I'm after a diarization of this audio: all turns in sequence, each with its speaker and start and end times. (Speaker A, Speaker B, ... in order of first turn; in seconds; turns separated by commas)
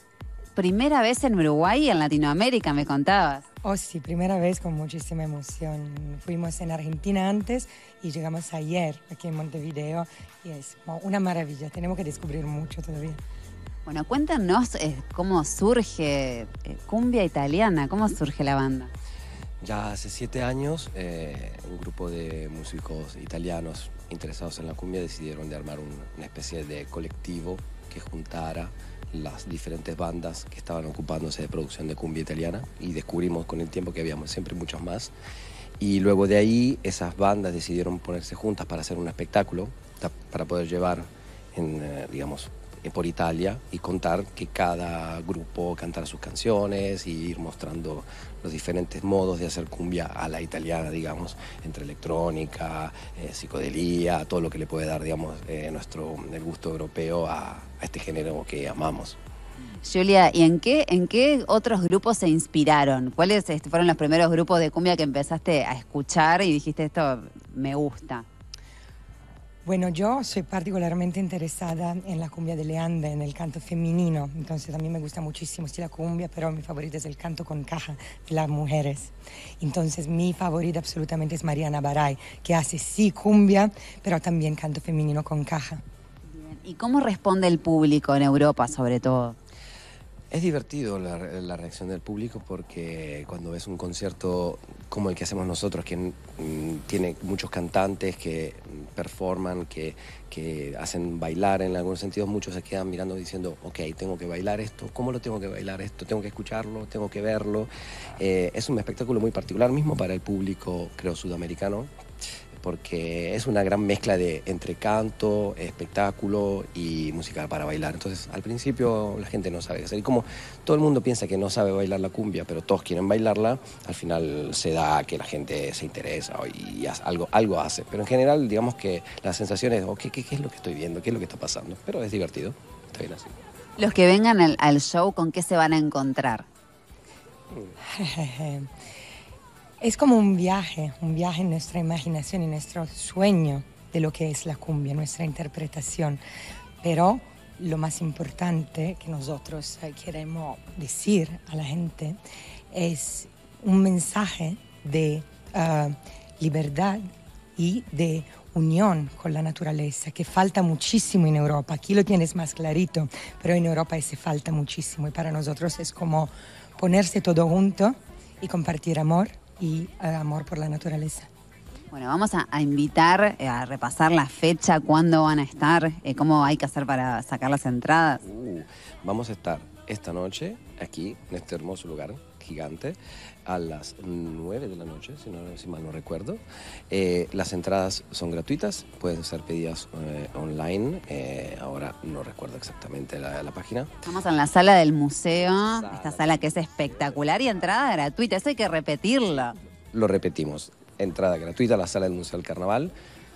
Speaker A: 0.5-3.4, Speaker B: 3.6-13.2, Speaker A: 13.8-18.9, Speaker C: 19.6-35.1, Speaker C: 35.8-59.2, Speaker A: 59.8-68.2, Speaker B: 69.6-85.8, Speaker A: 86.3-89.3, Speaker C: 90.3-111.9, Speaker C: 112.6-133.3, Speaker A: 133.8-136.4, Speaker B: 137.9-138.7, Speaker B: 139.8-146.2, Speaker B: 146.8-157.0, Speaker B: 157.6-171.3, Speaker A: 171.9-178.2, Speaker C: 178.2-193.9, Speaker A: 194.0-199.6, Speaker C: 195.3-197.7, Speaker C: 199.9-202.9